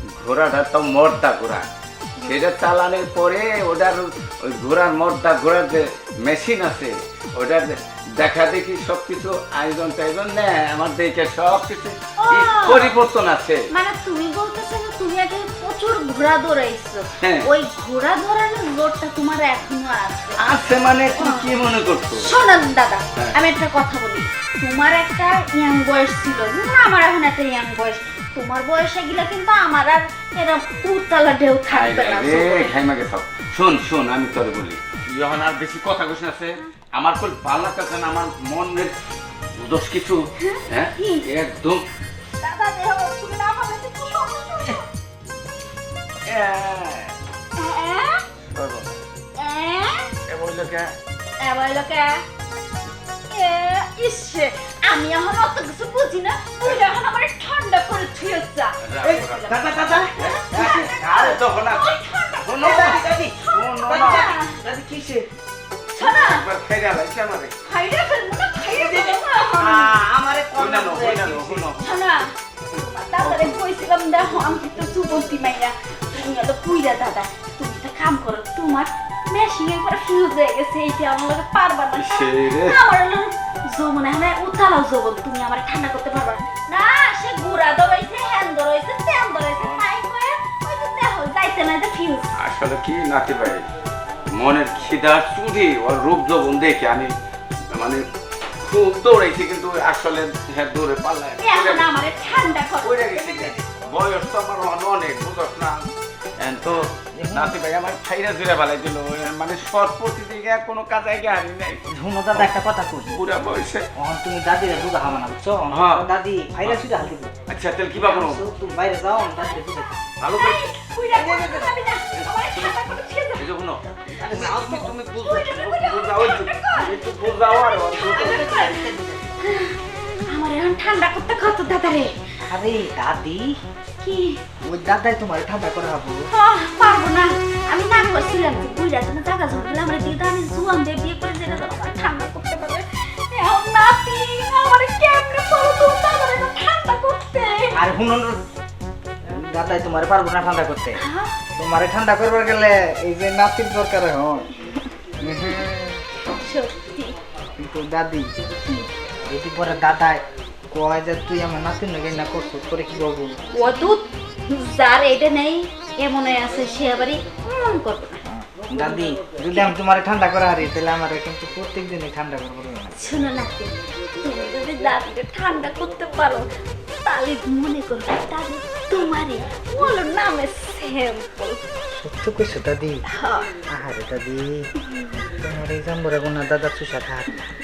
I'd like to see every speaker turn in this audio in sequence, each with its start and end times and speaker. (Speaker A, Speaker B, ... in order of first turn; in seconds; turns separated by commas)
Speaker A: 0.1-1.6, Speaker A: 2.2-13.6, Speaker B: 12.2-12.9, Speaker B: 13.7-20.4, Speaker A: 17.2-17.5, Speaker A: 20.4-22.3, Speaker B: 21.1-21.5, Speaker B: 22.2-32.7, Speaker A: 31.7-39.0, Speaker A: 39.6-41.8, Speaker B: 40.4-41.3, Speaker B: 42.4-44.9, Speaker A: 46.2-47.1, Speaker B: 47.5-48.2, Speaker A: 48.5-48.9, Speaker B: 49.4-50.1, Speaker A: 50.2-50.9, Speaker B: 51.4-52.2, Speaker B: 53.3-64.6, Speaker A: 58.8-59.6, Speaker C: 59.0-61.3, Speaker A: 60.2-64.3, Speaker C: 62.6-65.3, Speaker B: 65.9-66.4, Speaker A: 66.0-67.5, Speaker B: 67.6-70.0, Speaker C: 68.6-71.7, Speaker A: 69.6-70.0, Speaker A: 70.5-71.9, Speaker B: 71.8-92.3, Speaker A: 73.2-73.6, Speaker A: 81.9-82.8, Speaker A: 89.6-89.8, Speaker A: 92.4-93.7, Speaker A: 94.3-97.1, Speaker A: 97.7-98.0, Speaker A: 98.6-101.8, Speaker B: 101.4-103.2, Speaker A: 102.8-112.5, Speaker C: 103.1-103.8, Speaker C: 107.1-107.6, Speaker C: 111.9-113.1, Speaker A: 113.1-113.8, Speaker C: 114.0-117.3, Speaker A: 115.7-116.1, Speaker A: 117.5-118.4, Speaker C: 118.0-120.1, Speaker A: 120.2-120.6, Speaker B: 120.3-123.5, Speaker C: 121.1-121.7, Speaker A: 122.2-122.8, Speaker A: 123.3-128.6, Speaker C: 124.2-125.0, Speaker B: 125.1-129.8, Speaker C: 128.1-129.3, Speaker B: 130.3-132.1, Speaker C: 132.5-133.5, Speaker B: 134.0-134.4, Speaker C: 134.6-136.2, Speaker B: 136.3-147.8, Speaker C: 147.7-148.4, Speaker C: 149.3-151.0, Speaker B: 151.0-151.4, Speaker C: 151.6-154.5, Speaker C: 155.2-156.0, Speaker B: 156.2-157.2, Speaker C: 157.6-158.3, Speaker B: 158.6-158.9, Speaker C: 159.2-163.4, Speaker B: 163.5-168.2, Speaker C: 168.2-173.1, Speaker B: 172.9-176.4, Speaker B: 177.0-181.6, Speaker C: 181.9-183.0, Speaker B: 183.1-183.5, Speaker C: 183.7-184.7, Speaker B: 184.8-185.2, Speaker C: 185.3-187.4